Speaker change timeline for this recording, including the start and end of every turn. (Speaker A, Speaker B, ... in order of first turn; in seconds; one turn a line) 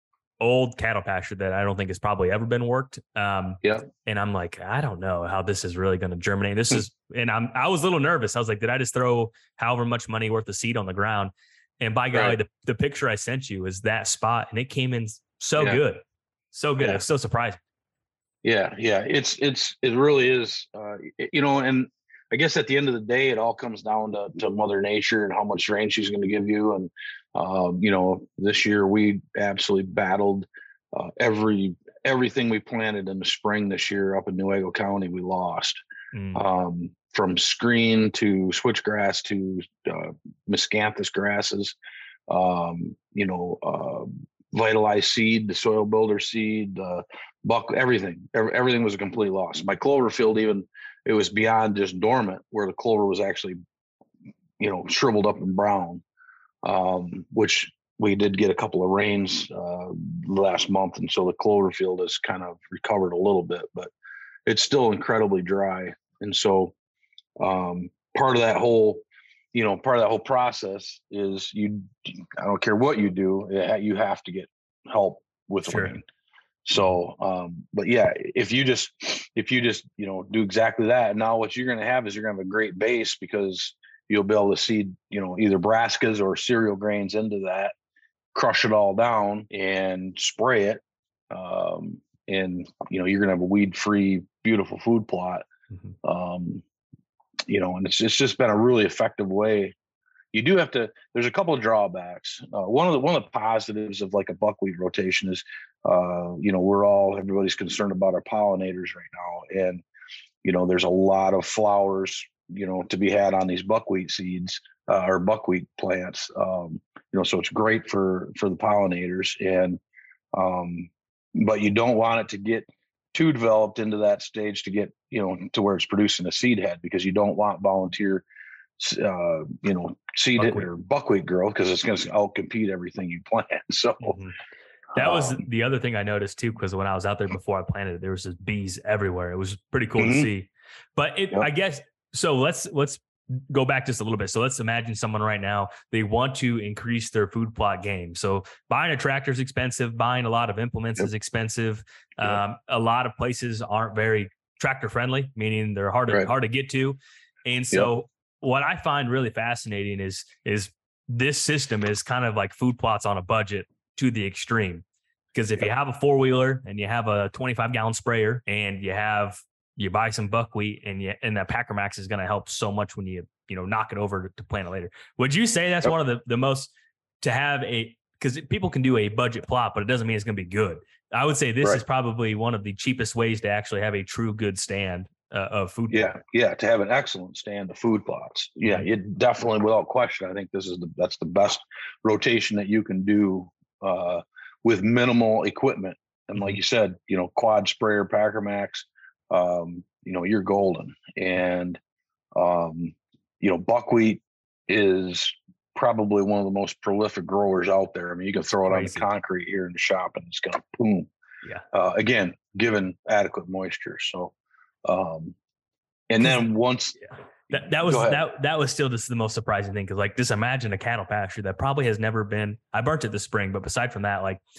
Speaker A: 0.4-17.6
Speaker B: 18.4-35.8
Speaker A: 36.1-36.4
Speaker B: 36.3-41.8
Speaker B: 42.3-53.6
Speaker B: 54.6-56.0
Speaker B: 56.6-63.9
Speaker B: 64.5-66.7
Speaker B: 67.4-69.0
Speaker B: 69.5-76.0
Speaker A: 75.7-75.9
Speaker B: 76.7-87.7
Speaker B: 88.3-95.5
Speaker B: 96.0-96.6
Speaker B: 97.5-99.8
Speaker B: 100.3-109.8
Speaker B: 110.4-119.8
Speaker B: 120.3-128.2
Speaker B: 128.8-134.2
Speaker A: 130.4-130.7
Speaker A: 134.0-134.3
Speaker B: 134.9-135.4
Speaker A: 134.9-186.1
Speaker B: 140.0-140.3
Speaker B: 185.9-201.8
Speaker B: 202.3-211.1
Speaker A: 208.7-209.1
Speaker B: 211.7-214.3
Speaker B: 214.8-215.4
Speaker B: 216.1-217.0
Speaker A: 217.5-224.4
Speaker B: 217.5-218.2